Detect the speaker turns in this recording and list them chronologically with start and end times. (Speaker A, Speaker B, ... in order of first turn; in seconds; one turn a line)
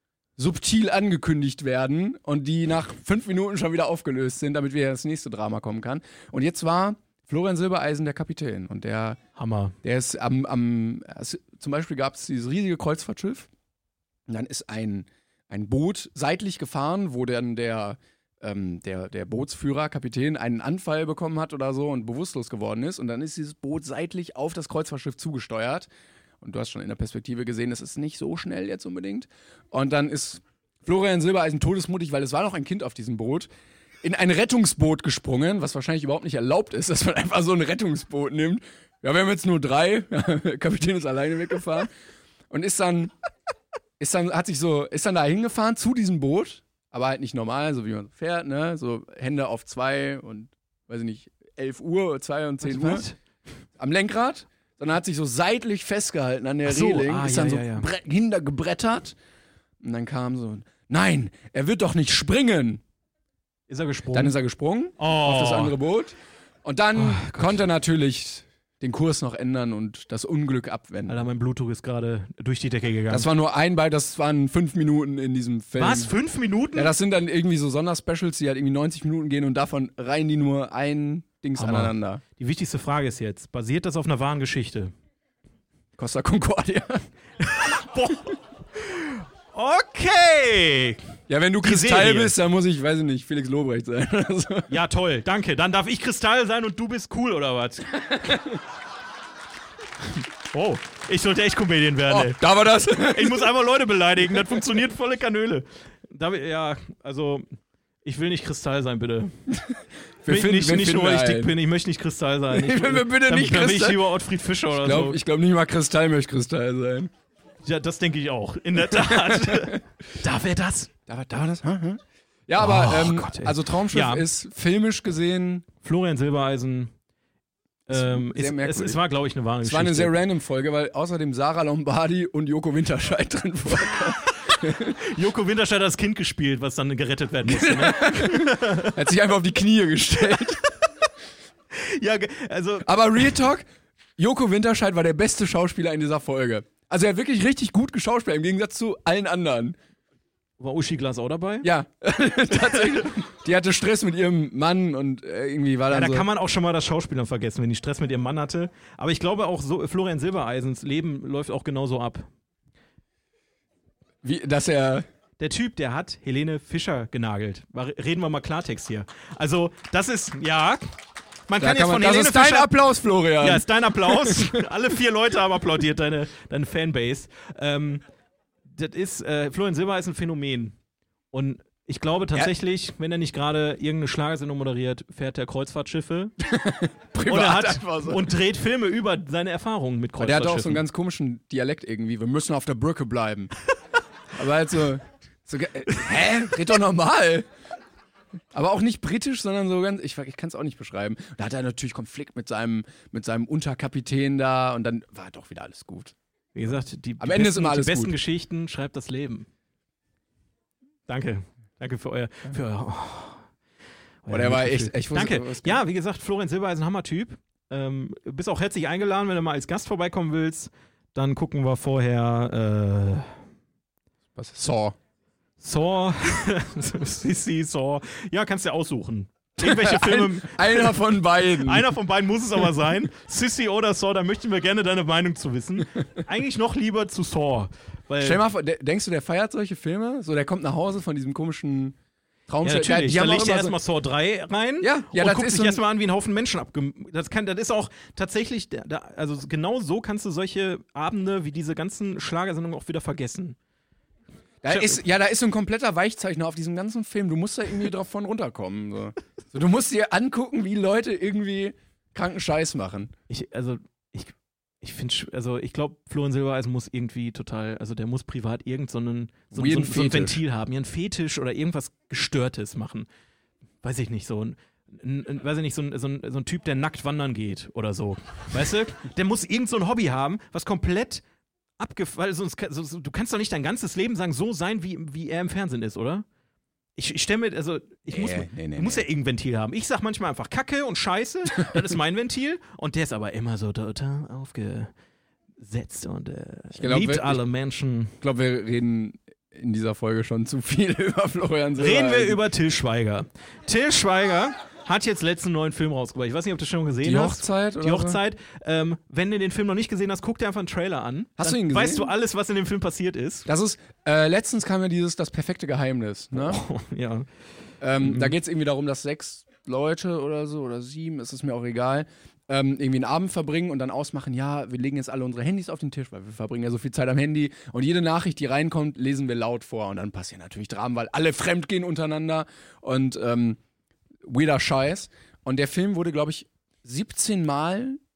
Speaker A: 0.4-9.2
Speaker B: 9.4-9.8
Speaker A: 9.8-13.5
Speaker A: 14.3-25.9
Speaker A: 26.4-33.5
Speaker A: 34.0-41.9
Speaker A: 42.5-43.1
Speaker A: 44.0-53.1
Speaker B: 52.6-53.2
Speaker A: 53.8-59.1
Speaker B: 56.6-57.9
Speaker A: 59.8-62.8
Speaker B: 63.7-64.3
Speaker A: 64.1-71.2
Speaker B: 65.0-65.8
Speaker B: 67.0-67.6
Speaker B: 71.1-73.3
Speaker A: 73.1-76.1
Speaker B: 75.8-76.9
Speaker A: 76.8-82.2
Speaker B: 81.6-84.9
Speaker A: 86.0-87.0
Speaker B: 87.4-91.0
Speaker A: 91.3-94.7
Speaker B: 91.6-92.3
Speaker B: 94.7-98.4
Speaker B: 100.2-107.5
Speaker A: 102.1-103.5
Speaker B: 108.0-109.3
Speaker A: 109.5-111.5
Speaker B: 110.3-115.2
Speaker A: 112.5-114.1
Speaker A: 114.7-117.1
Speaker B: 117.7-120.9
Speaker A: 118.9-119.8
Speaker A: 121.1-125.7
Speaker B: 122.6-124.3
Speaker B: 125.8-126.9
Speaker B: 127.9-130.2
Speaker A: 127.9-129.0
Speaker A: 129.6-135.0
Speaker B: 134.6-139.0
Speaker A: 137.4-140.6
Speaker B: 140.3-140.7
Speaker B: 141.7-143.3
Speaker A: 142.8-149.8
Speaker B: 150.6-151.7
Speaker A: 151.6-156.3
Speaker B: 152.6-153.1
Speaker B: 155.9-162.3
Speaker A: 164.2-165.1
Speaker B: 165.4-170.8
Speaker B: 171.5-172.7
Speaker A: 171.6-174.6
Speaker B: 173.4-178.0
Speaker B: 178.7-180.8
Speaker B: 181.3-186.3
Speaker A: 186.4-188.3
Speaker B: 187.2-190.8
Speaker A: 190.2-193.5
Speaker A: 194.3-197.4
Speaker A: 198.5-206.2
Speaker B: 206.6-209.5
Speaker A: 207.2-208.1
Speaker B: 211.1-213.4
Speaker B: 214.2-223.3
Speaker A: 214.3-215.8
Speaker A: 224.3-225.0
Speaker B: 225.6-238.4
Speaker A: 229.6-231.9
Speaker A: 238.2-242.0
Speaker A: 242.5-243.8
Speaker B: 242.6-253.6
Speaker A: 244.8-245.8
Speaker A: 254.6-263.1
Speaker B: 254.7-255.0
Speaker B: 263.3-273.1
Speaker A: 269.5-270.4
Speaker B: 273.8-281.2
Speaker B: 281.8-286.2
Speaker B: 287.0-294.9
Speaker A: 288.1-289.1
Speaker B: 295.6-298.1
Speaker A: 296.8-297.4
Speaker A: 298.2-302.4
Speaker B: 301.8-313.5
Speaker A: 307.0-308.2
Speaker A: 311.4-312.1
Speaker A: 313.5-316.6
Speaker B: 316.4-317.3
Speaker A: 317.8-333.6
Speaker B: 318.0-318.3
Speaker A: 334.2-338.0